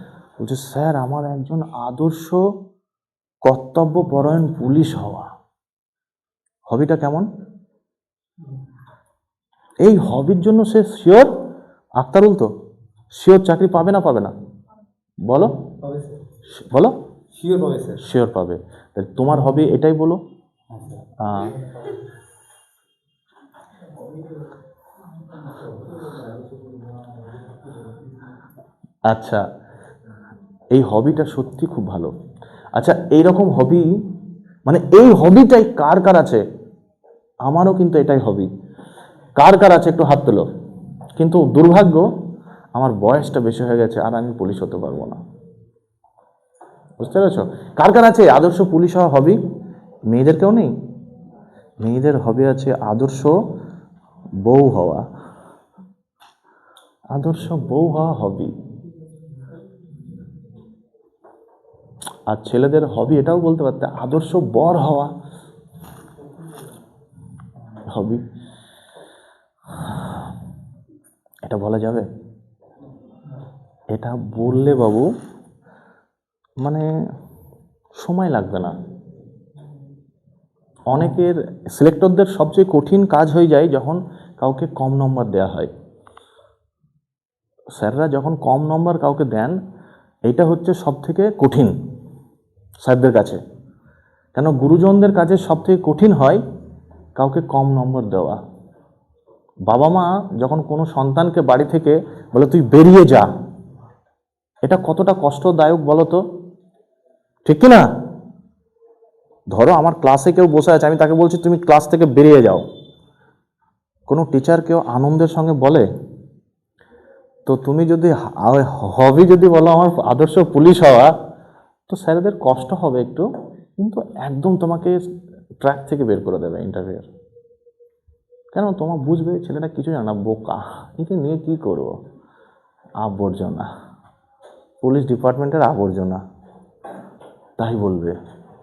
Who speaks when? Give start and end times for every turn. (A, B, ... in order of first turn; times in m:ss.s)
0:00.4-0:02.4 A
0:03.5-0:05.3 A
0:06.7-0:07.3 A
0:09.8-0:11.3 A
0:12.0-0:12.5 A
0:13.2-0:14.3 A
0:15.8-0:16.2 B
0:16.6-0:16.9 A
0:17.4-0:18.0 B
0:18.0-0:20.2 A
0:20.7-0:21.0 B
0:21.2-0:21.6 A
0:25.4-0:28.0 B
0:29.1-0:29.4 A
0:30.7-0:32.1 A
0:32.8-0:33.9 A
0:34.7-0:36.4 A
0:37.5-0:38.5 A
0:39.4-0:40.5 A
0:41.2-0:42.0 A
0:42.8-0:45.2 A
0:47.0-0:49.4 A
0:50.1-0:50.7 A
0:51.8-0:53.3 A
0:54.4-0:55.0 A
0:57.1-0:58.5 A
1:02.3-1:05.1 A
1:07.9-1:08.2 A
1:09.8-1:10.2 A
1:11.5-1:12.1 A
1:13.9-1:15.1 A
1:18.0-1:18.8 A
1:20.9-1:25.7 A
1:27.8-1:29.6 A
1:30.3-1:31.7 A
1:32.8-1:33.4 A
1:34.4-1:36.4 A
1:37.2-1:38.4 A
1:39.7-1:43.3 A
1:44.7-1:46.2 A
1:47.5-1:47.9 A
1:49.5-1:52.6 A
1:54.1-1:55.9 A
1:57.5-2:01.1 A
2:01.9-2:03.3 A
2:03.8-2:05.0 A
2:05.6-2:07.0 A
2:08.5-2:11.9 A
2:13.0-2:13.7 A
2:14.8-2:16.2 A
2:17.6-2:18.2 A